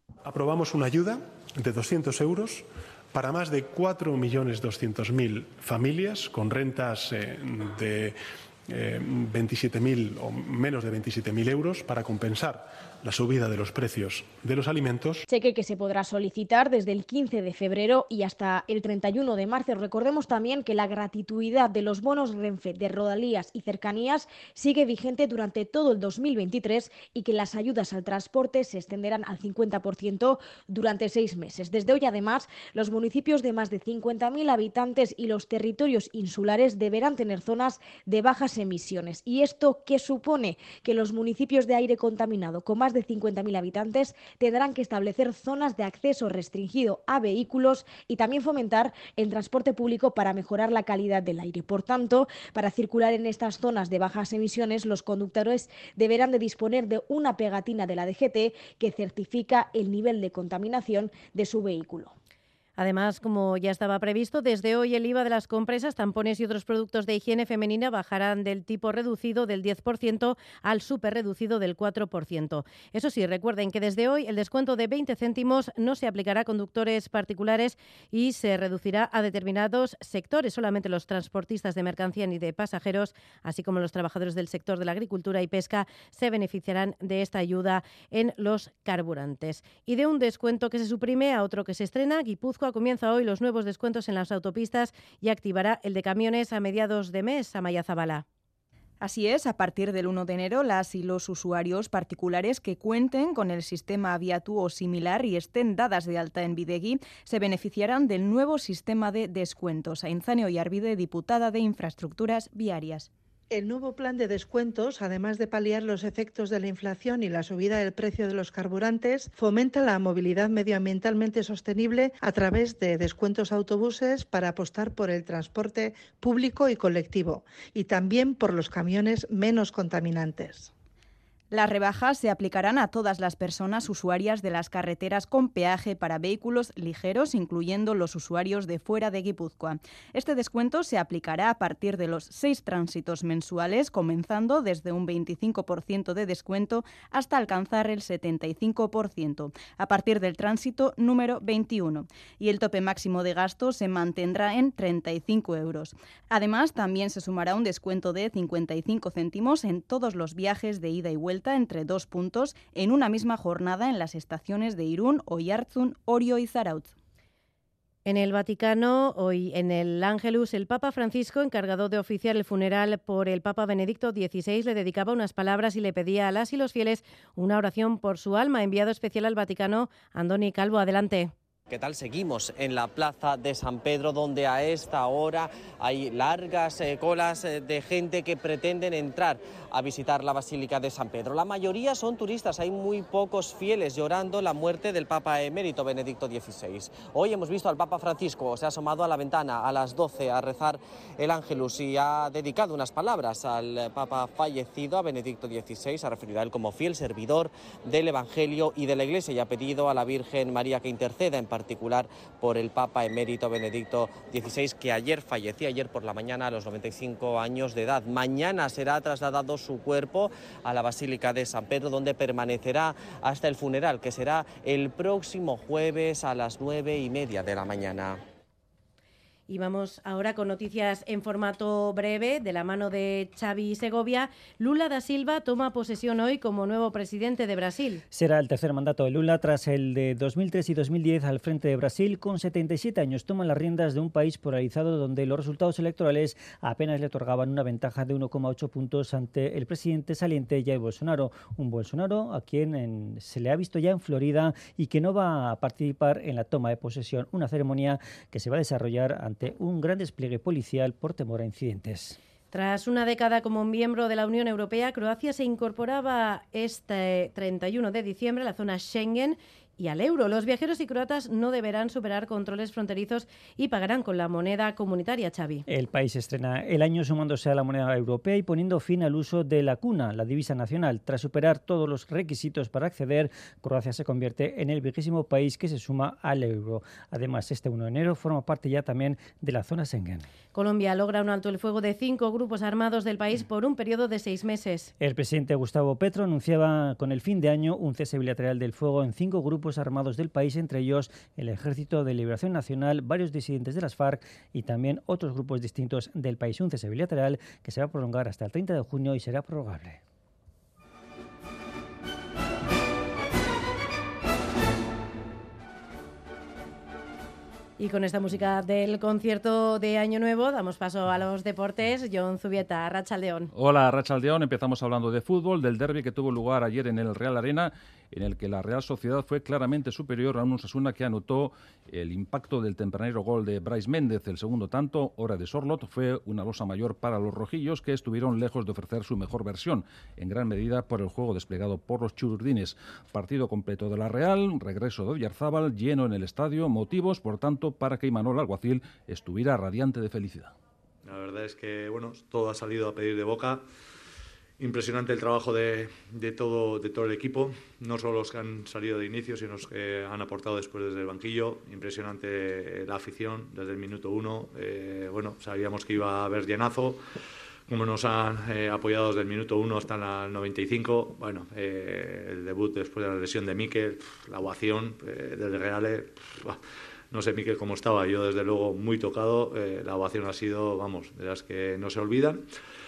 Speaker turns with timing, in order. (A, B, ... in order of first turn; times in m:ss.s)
0:00.2-0:15.2 A
0:15.3-1:02.1 B
1:02.8-1:38.2 C
1:39.0-1:53.1 D
1:54.9-2:10.5 E
2:11.5-2:46.9 D
2:48.0-3:01.3 C
3:01.7-3:48.2 F
3:49.5-3:58.0 C
3:58.1-4:22.2 G
4:22.5-4:35.6 C
4:35.7-4:50.3 G
4:50.5-4:54.9 C
4:55.0-5:10.0 G
5:17.8-5:23.5 C
5:23.5-5:50.5 H
5:51.0-5:53.6 I
5:54.6-6:07.0 I
6:07.7-6:16.6 I
6:17.1-6:22.4 I